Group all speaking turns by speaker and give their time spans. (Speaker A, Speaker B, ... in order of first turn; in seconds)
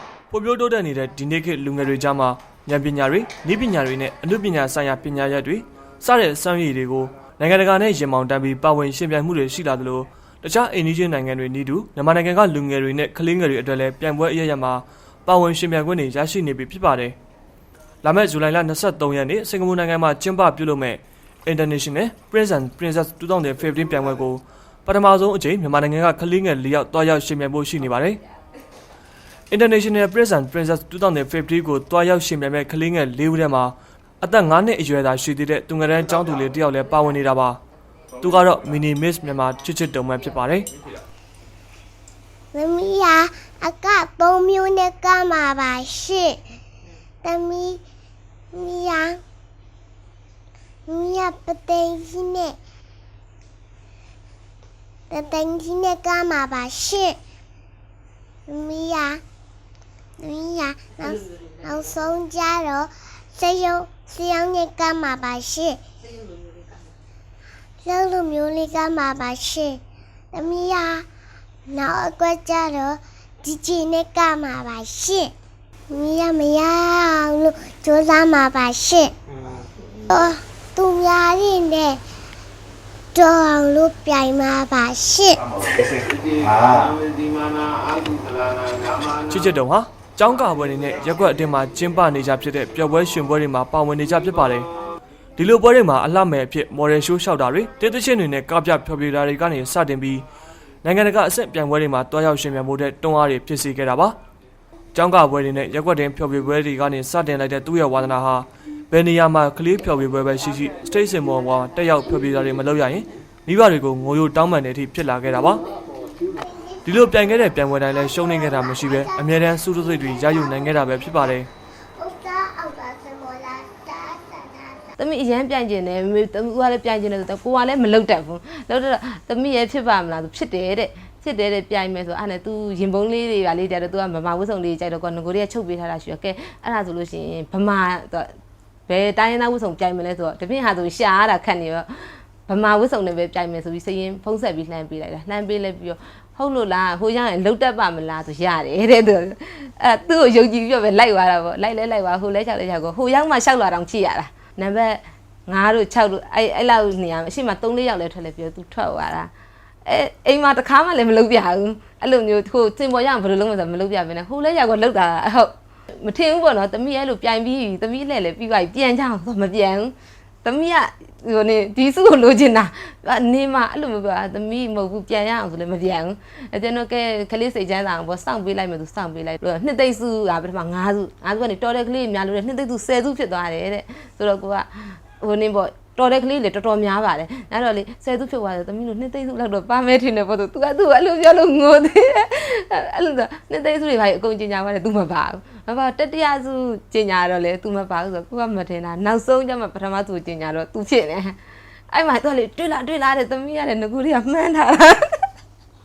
Speaker A: 0.3-17.2, 18.0-28.2, 29.5-37.6, 38.2-40.7, 89.3-94.7, 95.4-100.2, 100.8-104.2, 104.9-115.6, 116.8-121.5
Speaker B: 42.5-46.4, 47.2-47.8, 48.5-49.2, 50.9-52.6, 55.1-57.2, 58.5-59.2, 60.2-65.8, 67.8-69.8, 70.3-71.1, 71.7-75.3, 75.9-79.1, 80.1-82.0, 83.2-85.4, 116.3-121.3, 122.0-124.9
Speaker C: 86.4-89.2
Speaker D: 125.0-138.3, 138.9-159.3, 159.9-169.9, 170.4-201.4, 201.9-205.2